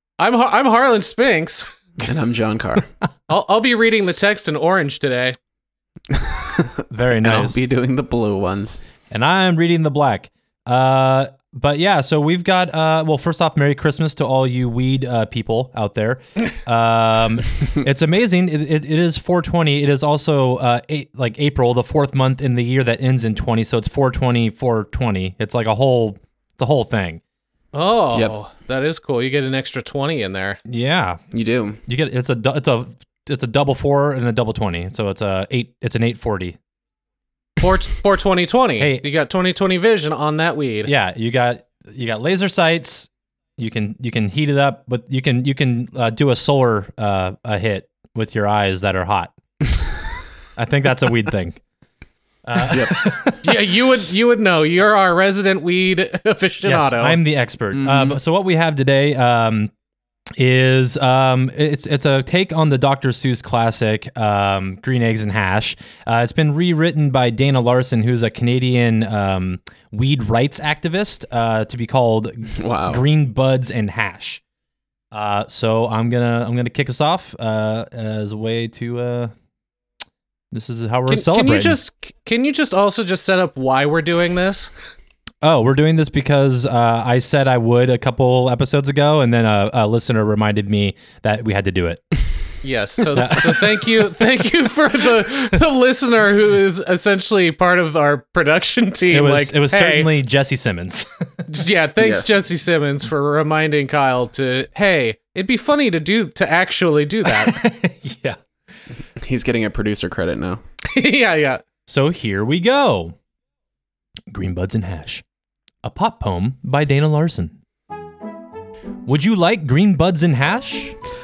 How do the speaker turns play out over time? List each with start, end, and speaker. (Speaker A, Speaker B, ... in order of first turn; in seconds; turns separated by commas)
Speaker A: 0.2-1.6, Speaker B: 2.0-2.9, Speaker A: 3.3-5.4, Speaker B: 6.1-8.8, Speaker C: 6.9-7.6, Speaker C: 9.1-27.2, Speaker A: 27.7-30.6, Speaker C: 30.6-31.2, Speaker B: 31.3-31.8, Speaker C: 31.9-36.6, Speaker A: 37.6-40.9, Speaker C: 40.8-49.3, Speaker C: 50.5-51.6, Speaker C: 52.5-53.5, Speaker B: 52.7-53.0, Speaker A: 53.4-57.2, Speaker C: 56.6-59.7, Speaker B: 57.7-58.2, Speaker C: 60.4-74.4, Speaker B: 72.6-73.0, Speaker C: 75.1-79.3, Speaker C: 80.5-81.8, Speaker A: 81.1-84.7, Speaker C: 85.4-92.2, Speaker A: 92.6-100.1, Speaker C: 93.1-93.6, Speaker C: 99.1-101.1, Speaker A: 101.5-107.6, Speaker B: 102.0-102.3, Speaker C: 107.3-108.4, Speaker B: 109.2-110.6, Speaker A: 110.9-111.6, Speaker C: 111.9-113.1, Speaker C: 114.3-115.2, Speaker C: 115.8-117.5, Speaker C: 119.0-121.0